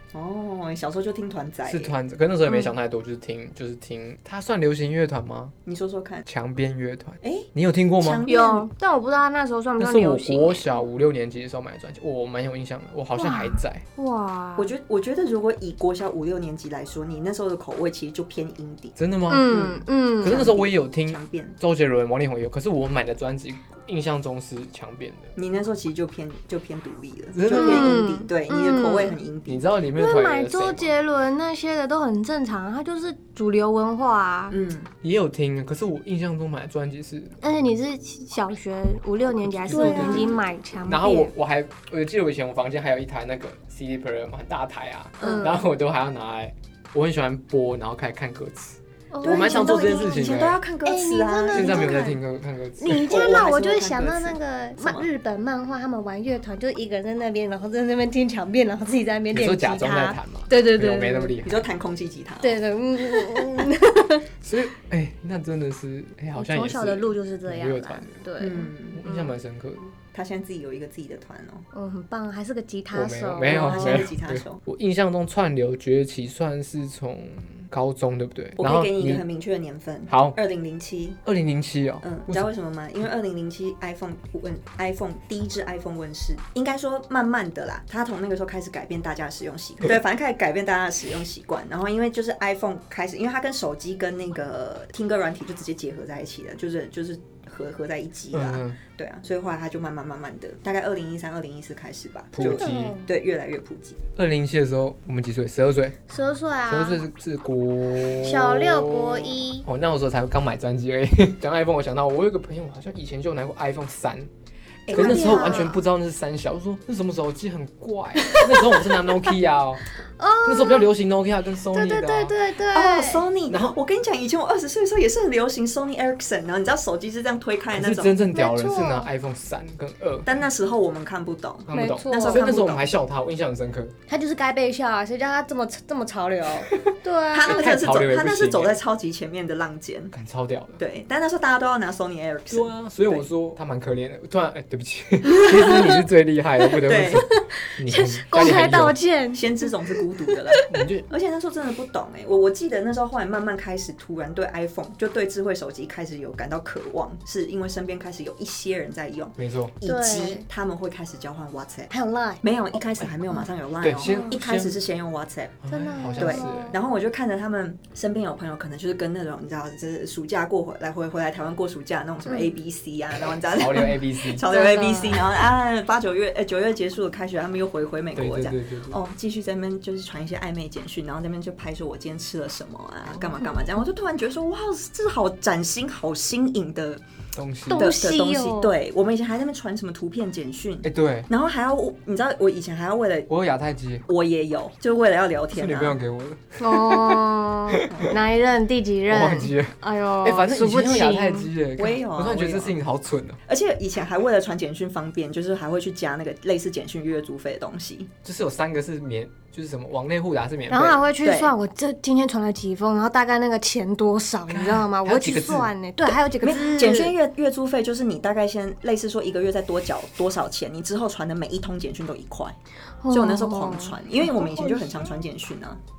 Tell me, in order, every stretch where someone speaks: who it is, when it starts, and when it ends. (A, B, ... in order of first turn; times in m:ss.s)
0:00.1-0:02.0 A
0:01.7-0:05.5 B
0:05.6-0:06.2 A
0:06.2-0:08.2 B
0:07.2-0:07.5 A
0:08.0-0:08.7 A
0:08.2-0:10.6 C
0:09.8-0:13.8 B
0:13.2-0:14.7 C
0:14.6-0:21.6 A
0:19.0-0:25.3 B
0:19.3-0:20.5 C
0:25.4-0:29.6 A
0:27.3-0:28.0 B
0:27.5-0:29.2 C
0:29.5-0:31.0 B
0:30.0-0:34.6 C
0:34.5-0:34.9 A
0:35.0-0:37.4 B
0:37.4-0:41.3 C
0:39.4-0:50.6 B
0:39.7-0:40.4 A
0:45.2-0:45.6 C
0:45.2-0:45.4 A
0:49.1-0:50.3 C
0:49.2-0:52.0 A
0:50.8-0:52.2 C
0:51.5-0:53.1 B
0:52.8-1:01.4 C
0:52.9-0:55.1 A
0:59.3-1:01.6 B
1:01.4-1:02.6 A
1:02.4-1:04.2 C
1:03.1-1:03.4 A
1:04.4-1:08.1 B
1:06.3-1:09.4 C
1:08.4-1:09.0 A
1:09.0-1:09.9 B
1:10.1-1:11.6 A
1:11.7-1:14.0 C
1:12.9-1:19.2 B
1:13.4-1:14.6 A
1:18.6-1:21.2 A
1:20.1-1:20.4 B
1:21.2-1:22.5 B
1:22.0-1:44.0 A
1:38.3-1:38.8 B
1:42.3-1:42.9 B
1:42.4-1:43.1 C
1:44.2-1:46.0 B
1:46.1-1:47.0 C
1:46.7-1:54.3 B
1:48.0-1:49.6 C
1:54.9-1:55.7 A
1:54.9-1:59.8 B
1:54.9-1:55.8 C
1:58.2-1:58.9 C
2:00.2-2:00.9 C
2:00.4-2:02.4 B
2:01.7-2:03.2 C
2:02.7-2:08.2 A
2:03.5-2:03.8 B
2:07.7-2:10.3 B
2:08.3-2:09.1 C
2:10.2-2:13.0 A
2:11.7-2:13.9 B
2:11.7-2:12.5 C
2:14.1-2:17.7 C
2:17.3-2:20.1 A
2:17.4-2:18.8 B
2:20.1-2:20.8 B
2:20.8-2:23.2 A
2:22.5-2:29.0 B
2:25.3-2:25.9 C
2:26.6-2:30.8 C
2:26.8-2:27.2 A
2:29.3-2:45.6 A
2:30.7-2:31.1 B
2:39.4-2:39.7 B
2:39.8-2:40.4 C
2:41.9-2:42.4 C
2:43.8-2:44.8 B
2:44.0-2:44.4 C
2:45.6-2:46.8 B
2:45.7-2:46.8 C
2:46.2-3:07.0 A
2:53.5-2:54.5 B
2:54.4-2:55.2 C
2:58.1-2:59.0 B
3:07.3-3:07.9 B
3:07.7-3:08.7 C
3:07.7-3:13.3 A
3:10.8-3:11.3 B
3:13.3-3:14.0 B
3:14.1-3:16.0 A
3:15.5-3:18.1 B
3:16.6-3:21.5 C
3:17.9-3:18.2 A
3:19.1-3:23.4 B
3:21.8-3:22.8 A
3:23.4-3:28.1 A
3:28.2-3:31.1 B
3:30.7-3:37.2 C
3:31.2-3:31.5 A
3:34.5-3:35.7 B
3:36.4-3:42.6 A
3:43.0-3:45.1 C
3:43.1-3:45.8 A